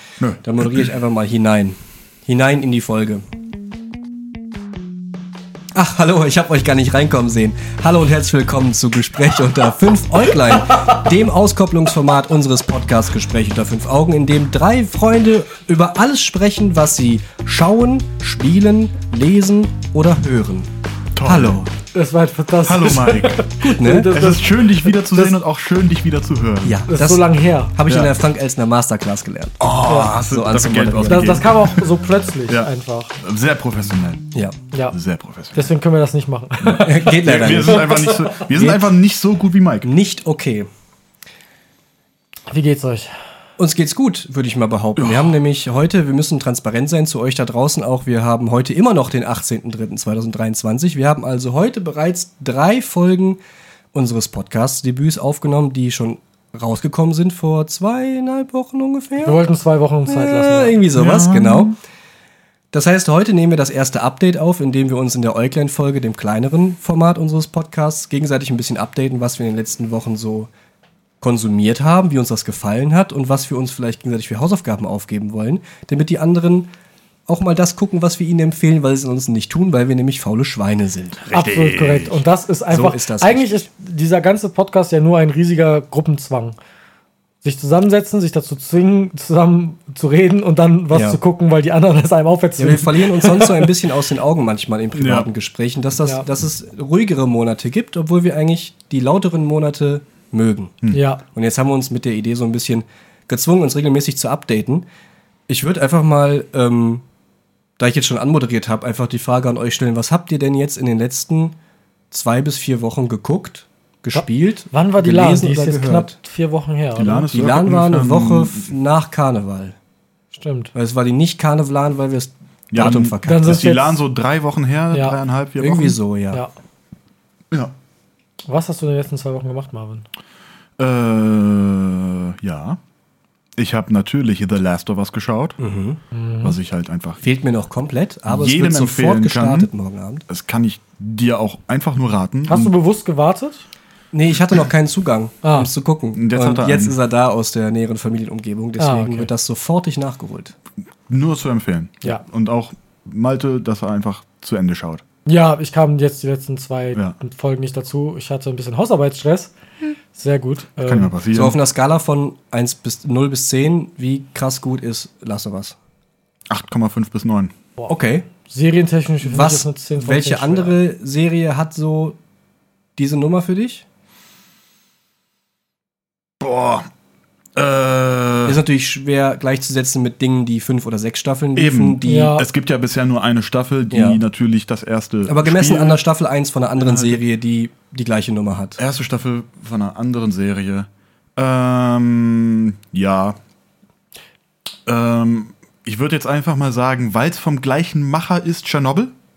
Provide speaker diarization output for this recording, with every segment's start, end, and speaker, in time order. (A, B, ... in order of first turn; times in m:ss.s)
0:00.2-0:00.8 A
0:00.4-0:03.2 B
0:05.7-0:20.7 B
0:21.2-0:21.6 A
0:21.2-0:21.7 B
0:21.9-0:25.4 C
0:22.6-0:23.4 A
0:23.7-0:24.1 B
0:24.0-0:26.8 A
0:26.6-0:31.4 B
0:26.9-0:27.7 C
0:27.9-0:28.1 A
0:29.6-0:34.3 A
0:29.9-0:30.2 C
0:31.0-0:33.1 C
0:34.9-0:35.7 A
0:35.5-0:38.4 C
0:36.6-0:39.9 A
0:36.8-0:38.0 B
0:38.5-0:38.8 B
0:39.8-0:40.7 B
0:42.5-0:43.1 C
0:43.6-0:53.4 B
0:45.0-0:45.3 A
0:53.9-0:59.4 B
0:59.2-1:00.8 C
1:00.0-1:01.7 B
1:00.9-1:01.7 A
1:02.7-1:10.5 B
1:11.2-1:16.7 B
1:17.3-1:21.2 B
1:21.2-1:22.2 A
1:21.3-1:26.6 C
1:22.7-1:23.6 B
1:27.4-1:33.7 C
1:30.9-1:31.2 B
1:32.6-1:40.8 B
1:35.0-1:35.3 A
1:40.9-1:41.2 C
1:41.3-1:44.8 B
1:45.5-1:47.0 B
1:47.8-1:51.5 B
1:52.1-1:56.2 B
1:54.1-1:57.3 C
1:57.0-1:58.7 A
1:57.3-1:59.8 B
2:00.3-2:00.7 C
2:00.7-2:03.6 B
2:02.7-2:06.0 A
2:03.2-2:04.0 C
2:04.9-2:05.2 C
2:05.6-2:06.4 B
2:08.4-2:10.0 C
2:10.8-2:12.8 A
2:13.6-2:15.6 A
2:15.6-2:16.0 B
2:16.1-2:16.6 C
2:16.4-2:17.2 A
2:17.2-2:20.2 B
2:18.3-2:19.7 A
2:20.3-2:22.7 A
2:22.5-2:23.6 C
2:24.1-2:30.5 B
2:25.4-2:25.7 C
2:26.1-2:27.0 A
2:28.8-2:29.3 C
2:31.1-2:35.0 A
2:35.2-2:39.5 C
2:40.1-2:41.1 C
2:40.8-2:41.6 A
2:41.3-2:45.8 B
2:46.5-2:47.5 A
2:47.9-2:48.3 B
2:48.4-2:50.8 C
2:49.2-2:52.2 B
2:53.0-2:53.8 B
2:56.4-2:56.9 A
2:57.5-2:58.6 A
2:58.4-3:02.3 B
3:01.6-3:06.0 A
3:02.0-3:02.4 C
3:03.9-3:04.2 B
3:05.3-3:08.8 B
3:06.8-3:07.2 A
3:08.8-3:13.4 A
3:14.8-3:19.1 A